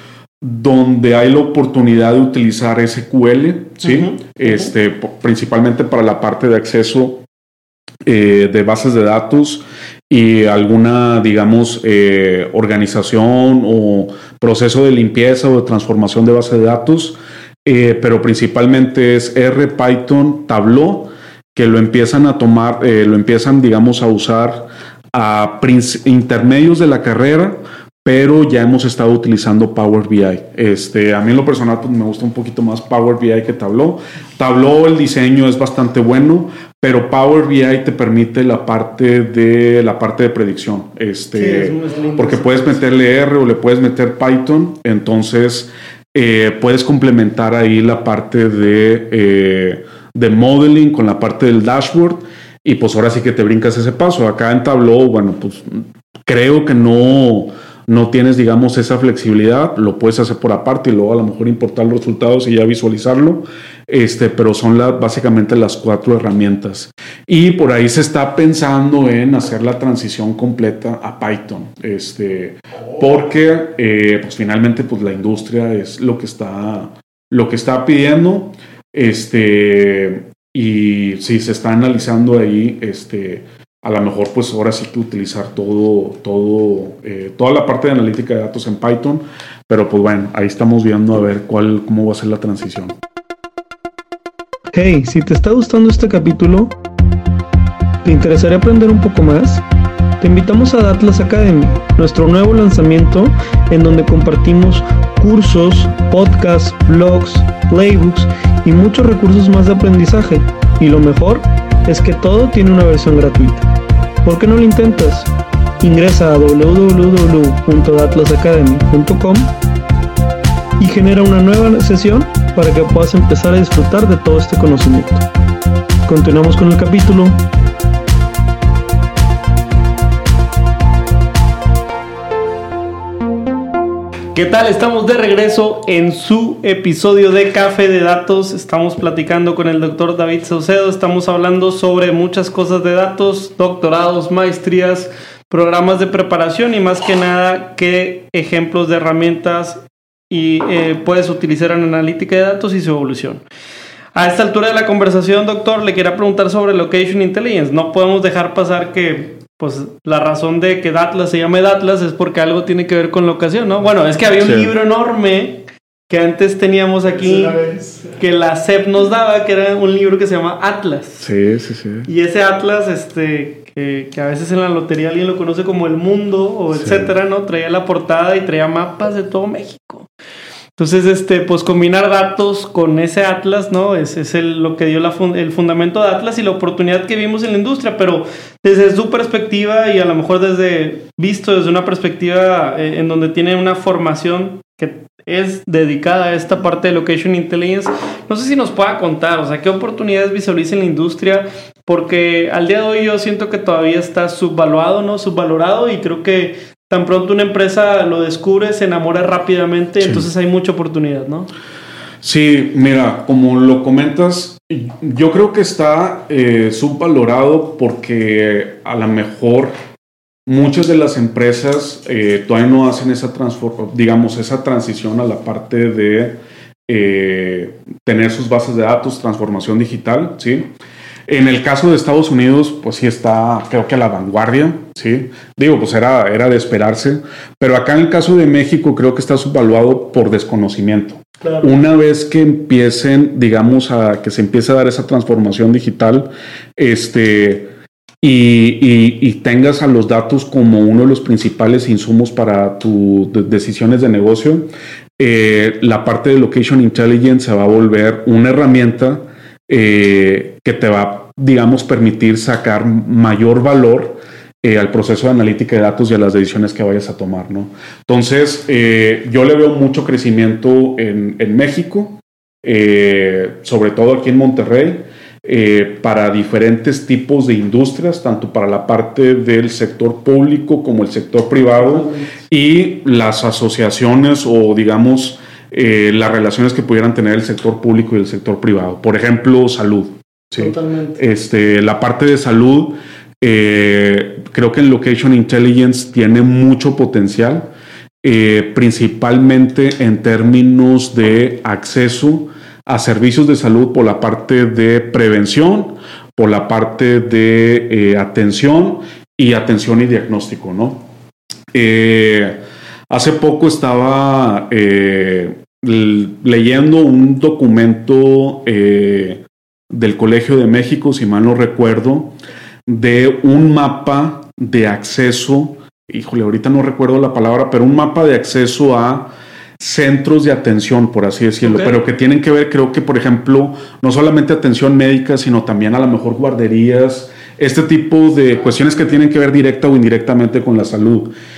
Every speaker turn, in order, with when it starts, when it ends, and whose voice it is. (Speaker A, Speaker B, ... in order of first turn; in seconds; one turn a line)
Speaker A: 0.4-7.2
Speaker B: 3.8-4.7
Speaker A: 8.1-93.0
Speaker B: 41.3-42.8
Speaker B: 94.7-96.7
Speaker B: 98.0-99.6
Speaker B: 100.2-113.7
Speaker B: 114.2-119.5
Speaker B: 120.8-125.2
Speaker B: 126.0-127.4
Speaker B: 134.3-153.4
Speaker B: 154.1-171.3
Speaker A: 164.3-164.7
Speaker A: 171.2-172.1
Speaker B: 172.1-180.1
Speaker A: 176.7-177.1
Speaker B: 180.8-211.5
Speaker A: 210.0-210.2
Speaker A: 212.2-219.8
Speaker A: 220.5-230.7
Speaker A: 231.3-247.7
Speaker B: 241.4-241.7
Speaker A: 248.2-297.7
Speaker B: 281.8-282.3
Speaker B: 290.6-291.2
Speaker A: 298.2-311.1
Speaker A: 311.7-322.3
Speaker A: 322.9-341.3
Speaker B: 331.6-331.9